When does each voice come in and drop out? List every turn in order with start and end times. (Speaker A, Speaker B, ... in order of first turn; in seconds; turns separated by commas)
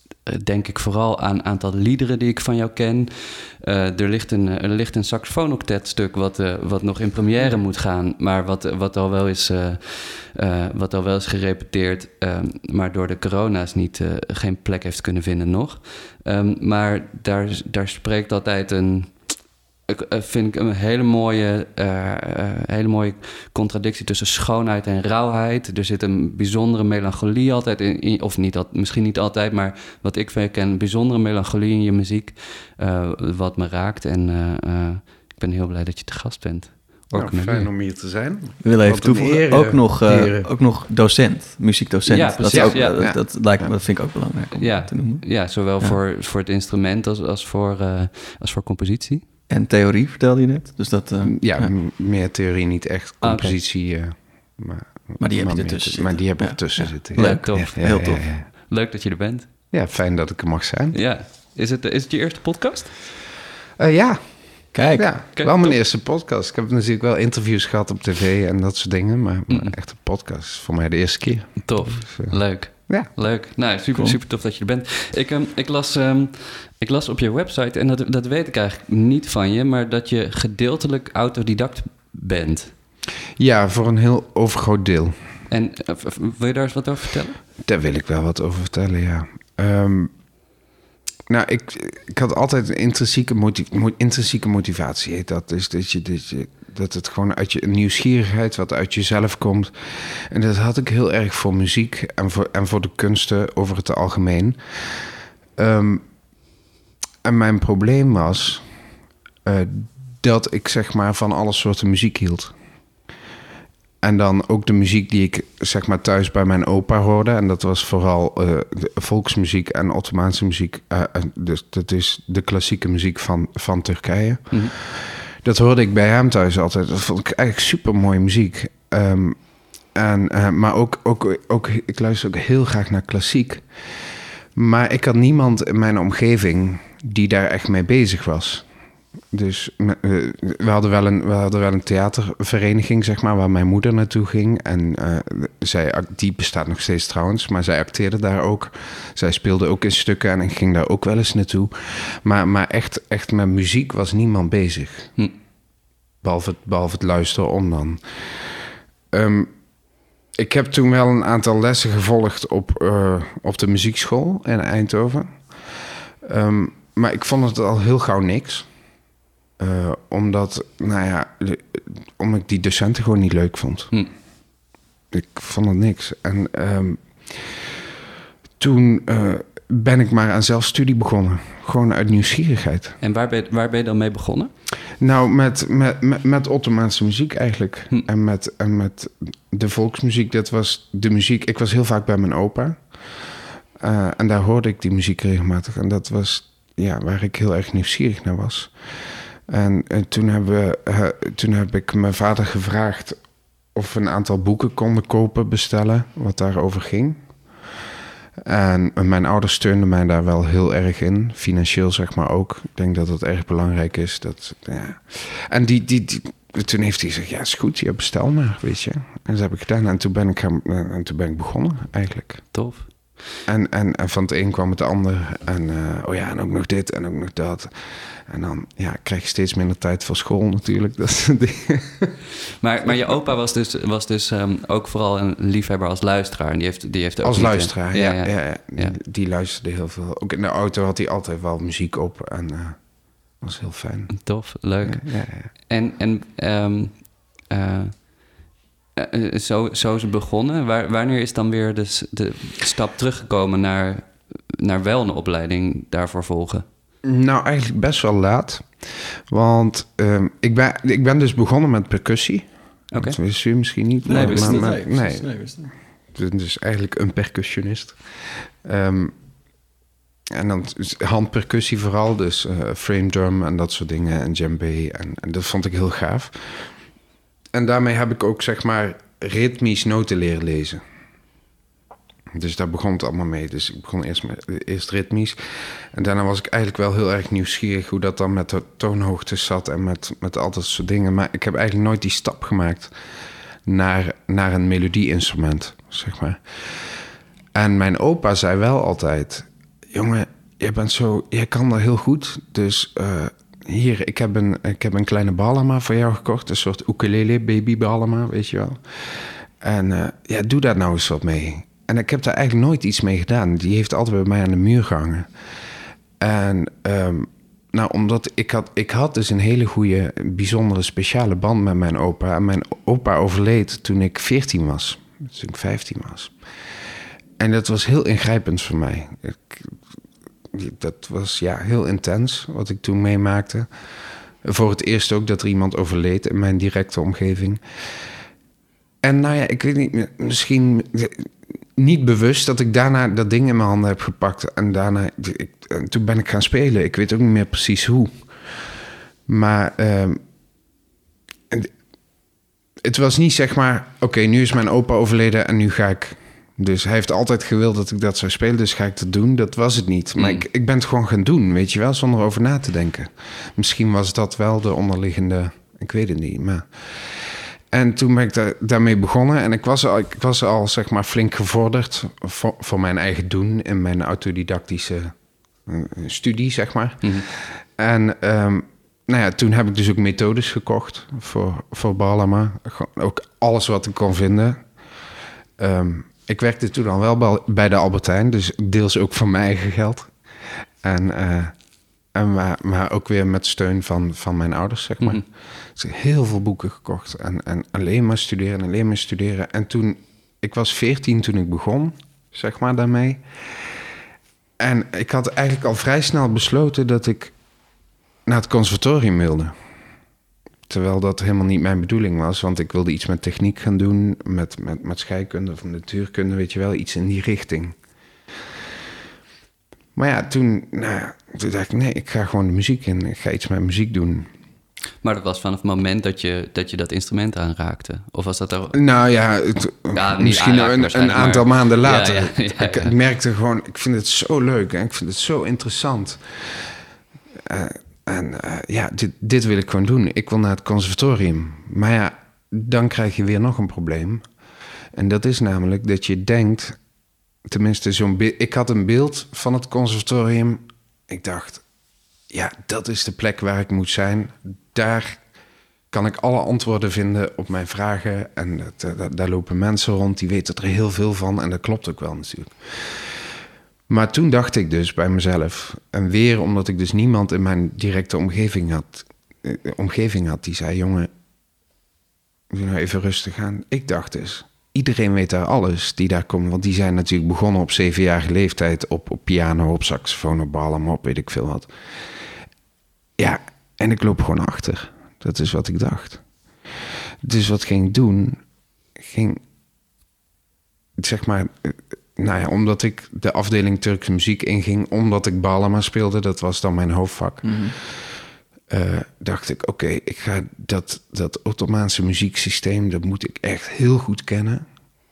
Speaker A: 0.3-19.3, Speaker A: 19.9-37.7, Speaker B: 37.1-40.5, Speaker C: 38.6-46.0, Speaker A: 42.1-43.2, Speaker B: 42.5-43.7, Speaker A: 44.5-49.2, Speaker C: 49.5-51.7, Speaker B: 51.2-58.5, Speaker A: 53.2-53.6, Speaker C: 55.2-58.2, Speaker A: 57.1-59.5, Speaker B: 59.7-61.0, Speaker A: 60.9-63.1, Speaker B: 63.8-73.1, Speaker C: 64.7-65.1, Speaker A: 65.3-65.8, Speaker A: 71.6-82.7, Speaker C: 73.9-74.2, Speaker B: 83.4-85.2, Speaker A: 85.5-87.4, Speaker B: 87.6-90.1, Speaker B: 91.3-106.0, Speaker B: 107.2-108.7, Speaker B: 109.4-112.5, Speaker B: 114.0-129.4, Speaker B: 129.9-138.7, Speaker B: 139.3-155.1, Speaker B: 156.2-159.5, Speaker B: 160.4-168.7, Speaker B: 169.6-173.9, Speaker B: 175.1-177.8, Speaker B: 178.6-183.0, Speaker A: 183.0-184.5, Speaker B: 185.0-203.2, Speaker B: 203.7-207.7, Speaker B: 208.4-222.4, Speaker A: 222.5-223.2, Speaker B: 223.5-232.2, Speaker A: 232.6-239.0, Speaker B: 232.8-233.2, Speaker B: 237.2-242.9, Speaker B: 243.4-245.5, Speaker A: 244.2-248.4, Speaker A: 249.0-256.6, Speaker B: 257.0-269.1, Speaker A: 262.9-263.2, Speaker C: 264.1-265.7, Speaker A: 264.1-264.7, Speaker B: 270.3-276.7, Speaker B: 277.5-280.8, Speaker B: 282.3-292.9, Speaker B: 293.6-315.3, Speaker B: 316.2-326.3, Speaker B: 327.4-329.8, Speaker B: 330.5-333.7, Speaker B: 334.4-338.1, Speaker B: 339.0-348.7, Speaker B: 349.3-350.2, Speaker B: 352.8-384.7, Speaker A: 360.2-360.4, Speaker B: 385.6-391.5, Speaker B: 392.1-403.8, Speaker B: 404.6-407.3, Speaker B: 408.2-409.5, Speaker B: 410.7-417.8, Speaker B: 419.9-424.3, Speaker A: 425.0-428.8, Speaker B: 428.7-436.7, Speaker A: 429.9-432.9, Speaker B: 437.5-444.2, Speaker B: 444.9-446.8, Speaker B: 447.4-451.6, Speaker B: 452.3-455.2, Speaker B: 455.9-463.3, Speaker B: 463.9-471.1, Speaker B: 472.5-481.7, Speaker B: 483.2-486.2, Speaker B: 487.2-488.4, Speaker B: 489.0-489.4, Speaker B: 491.0-504.6, Speaker C: 497.4-497.7